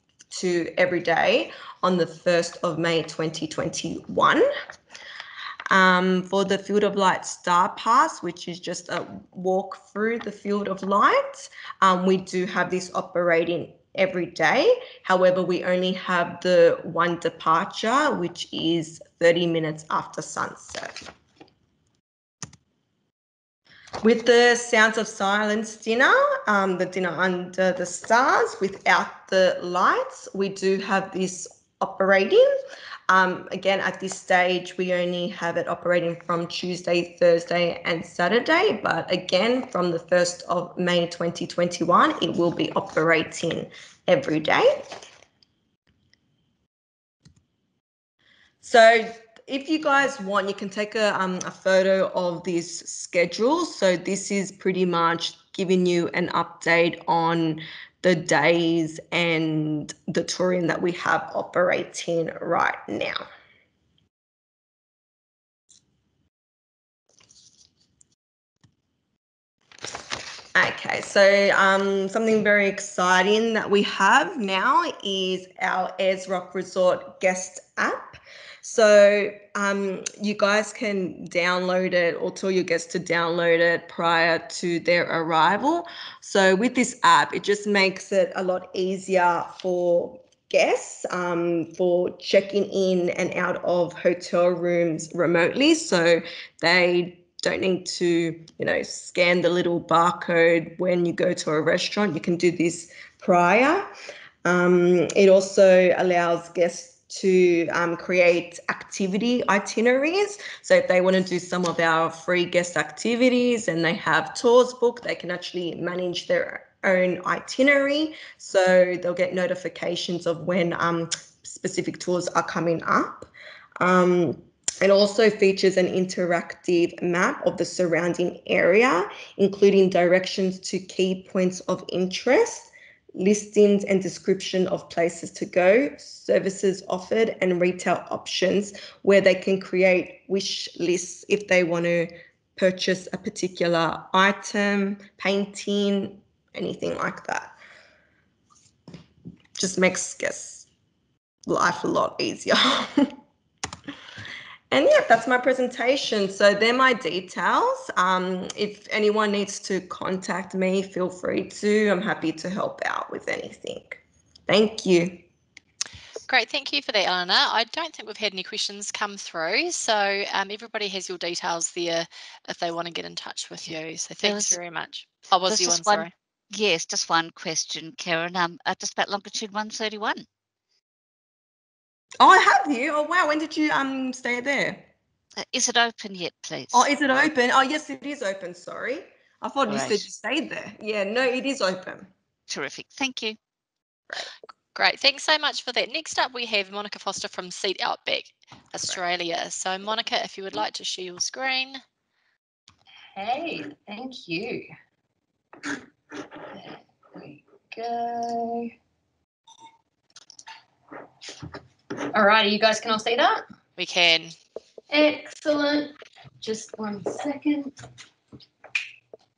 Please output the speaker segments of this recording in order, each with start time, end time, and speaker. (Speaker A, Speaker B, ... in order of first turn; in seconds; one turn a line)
Speaker A: 0.3-4.5
Speaker A: 5.7-21.1
Speaker A: 24.0-32.5
Speaker A: 33.1-45.0
Speaker A: 48.6-63.3
Speaker A: 70.5-103.9
Speaker A: 104.4-147.5
Speaker A: 149.6-150.7
Speaker A: 151.4-153.2
Speaker A: 154.7-165.2
Speaker B: 166.3-176.1
Speaker C: 174.2-174.6
Speaker C: 175.5-180.2
Speaker A: 182.2-184.9
Speaker C: 185.4-186.9
Speaker A: 186.7-192.1
Speaker C: 189.7-190.0
Speaker C: 192.5-193.4
Speaker B: 194.7-201.8
Speaker D: 203.1-204.7
Speaker D: 205.7-208.7
Speaker D: 212.1-213.4
Speaker B: 213.8-214.3
Speaker D: 214.9-217.7